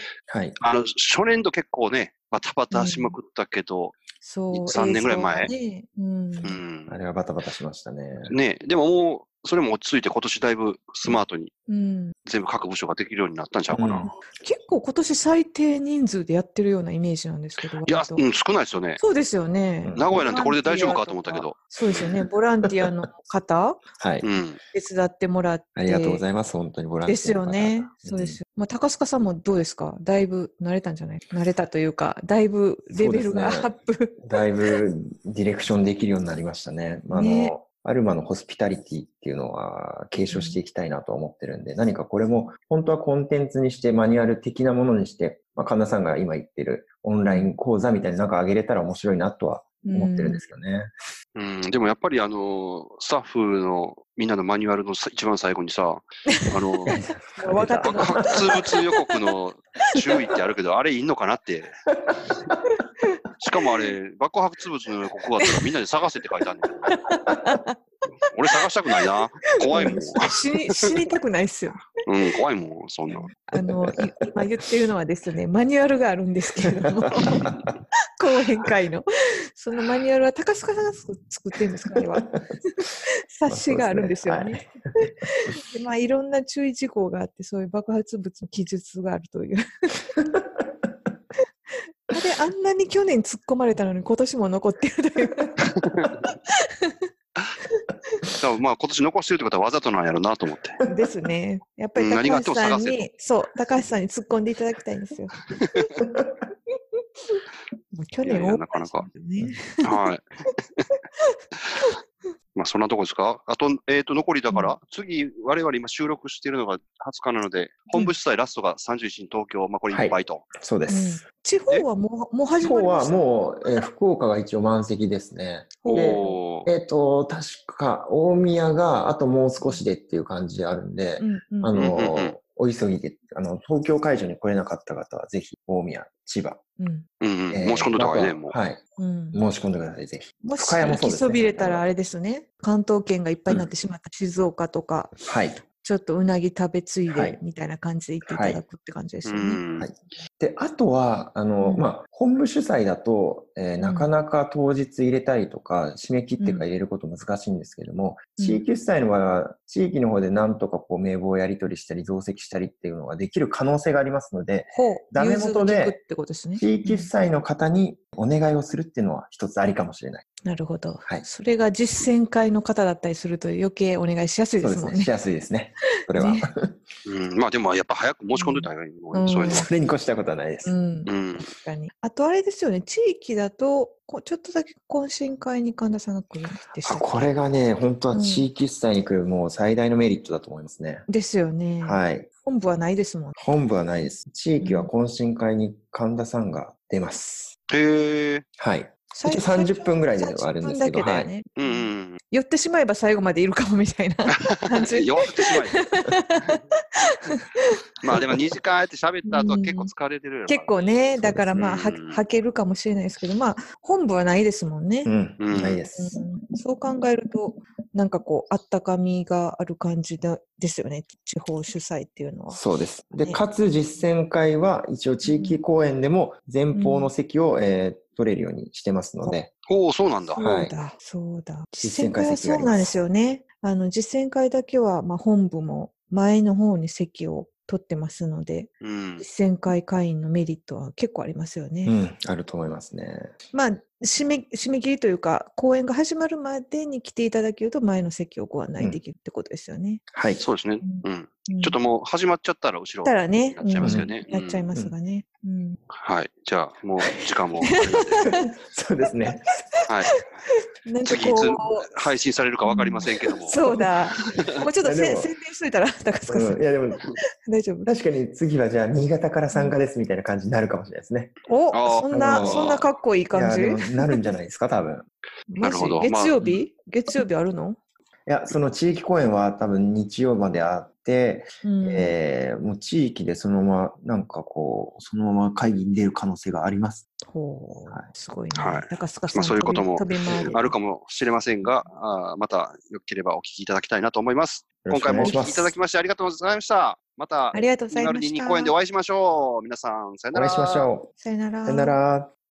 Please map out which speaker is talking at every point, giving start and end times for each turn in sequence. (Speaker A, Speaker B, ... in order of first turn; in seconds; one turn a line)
Speaker A: 0.3-0.6
Speaker B: 0.6-4.0
Speaker C: 2.7-3.2
Speaker C: 4.2-6.6
Speaker B: 4.5-5.5
Speaker B: 6.4-7.0
Speaker A: 6.9-8.3
Speaker B: 8.2-11.5
Speaker C: 11.7-12.1
Speaker B: 12.3-14.1
Speaker A: 13.7-14.1
Speaker C: 14.2-18.2
Speaker B: 17.8-19.0
Speaker C: 19.0-23.8
Speaker A: 19.8-20.1
Speaker B: 19.9-21.6
Speaker A: 22.7-23.0
Speaker A: 24.0-24.3
Speaker B: 24.2-24.6
Speaker C: 24.7-26.2
Speaker A: 25.8-28.4
Speaker C: 27.1-34.4
Speaker A: 33.0-50.9
Speaker C: 37.1-37.5
Speaker C: 40.1-40.6
Speaker C: 47.3-47.5
Speaker C: 49.8-50.4
Speaker B: 51.4-57.0
Speaker C: 56.3-58.9
Speaker A: 56.9-58.6
Speaker B: 57.9-61.8
Speaker B: 63.4-67.0
Speaker C: 66.9-67.8
Speaker B: 68.3-70.9
Speaker C: 69.7-71.9
Speaker B: 72.0-73.3
Speaker C: 73.5-79.0
Speaker A: 73.5-74.0
Speaker A: 77.2-77.7
Speaker C: 79.5-82.3
Speaker A: 81.8-82.3
Speaker C: 82.8-90.0
Speaker A: 83.5-84.7
Speaker C: 92.1-95.6
Speaker B: 95.8-96.2
Speaker C: 96.5-97.0
Speaker C: 97.7-98.2
Speaker B: 98.4-100.8
Speaker C: 100.8-105.4
Speaker B: 102.0-103.0
Speaker C: 107.9-110.0
Speaker B: 108.2-109.1
Speaker B: 109.8-110.2
Speaker B: 112.5-120.5
Speaker C: 114.5-114.8
Speaker A: 119.9-121.2
Speaker C: 120.9-123.8
Speaker A: 122.6-136.6
Speaker C: 125.8-126.4
Speaker B: 125.9-126.7
Speaker C: 131.2-131.9
Speaker B: 131.8-132.3
Speaker C: 136.8-137.1
Speaker B: 137.2-138.6
Speaker A: 137.5-138.8
Speaker C: 139.0-139.4
Speaker A: 139.3-141.9
Speaker C: 140.4-145.1
Speaker A: 145.3-145.6
Speaker C: 145.8-149.6
Speaker A: 147.1-147.4
Speaker A: 148.2-148.6
Speaker B: 149.2-149.9
Speaker A: 149.8-166.0
Speaker C: 151.6-151.9
Speaker C: 153.8-154.1
Speaker C: 156.4-156.7
Speaker C: 158.4-158.6
Speaker C: 164.7-167.1
Speaker A: 166.6-170.2
Speaker C: 170.4-175.1
Speaker A: 174.6-176.8
Speaker C: 176.1-176.5
Speaker B: 177.1-179.7
Speaker C: 178.3-179.7
Speaker A: 179.4-180.8
Speaker C: 180.7-187.2
Speaker B: 181.1-181.5
Speaker A: 186.8-191.1
Speaker C: 188.1-188.5
Speaker C: 191.1-193.4
Speaker A: 191.8-192.3
Speaker A: 193.4-197.5
Speaker C: 194.6-194.9
Speaker B: 197.7-198.4
Speaker A: 198.6-201.3
Speaker C: 199.1-207.6
Speaker B: 201.6-202.2
Speaker B: 204.4-205.9
Speaker B: 208.0-212.2
Speaker C: 209.3-209.9
Speaker C: 210.5-215.1
Speaker A: 211.2-211.7
Speaker A: 215.1-216.2
Speaker B: 215.4-215.8
Speaker C: 216.0-222.6
Speaker A: 222.5-229.5
Speaker C: 223.2-223.4
Speaker C: 225.2-225.6
Speaker C: 226.7-227.1
Speaker B: 229.7-230.4
Speaker C: 230.3-241.9
Speaker A: 230.4-230.8
Speaker A: 231.8-233.0
Speaker B: 238.8-239.2
Speaker A: 241.8-243.3
Speaker C: 243.5-250.0
Speaker A: 248.8-249.0
Speaker A: 250.1-250.4
Speaker B: 250.4-254.7
Speaker C: 250.8-251.8
Speaker C: 253.0-255.8
Speaker A: 253.8-254.1
Speaker B: 255.9-258.3
Speaker C: 257.6-258.5
Speaker A: 258.2-259.6
Speaker C: 260.9-262.1
Speaker B: 261.0-263.6
Speaker C: 262.6-266.6
Speaker A: 264.8-265.3
Speaker A: 266.3-267.0
Speaker C: 267.5-267.9
Speaker A: 267.9-271.3
Speaker C: 269.5-269.8
Speaker C: 271.5-274.2
Speaker B: 271.7-272.9
Speaker A: 272.1-272.8
Speaker A: 273.3-275.1
Speaker C: 275.5-277.8
Speaker B: 275.6-276.4
Speaker A: 276.4-276.7
Speaker A: 278.3-287.0
Speaker C: 281.6-282.1
Speaker C: 287.3-290.8
Speaker B: 288.6-300.9
Speaker A: 294.8-295.8
Speaker C: 297.5-298.7
Speaker A: 300.3-301.1
Speaker C: 301.2-302.0
Speaker A: 301.7-302.3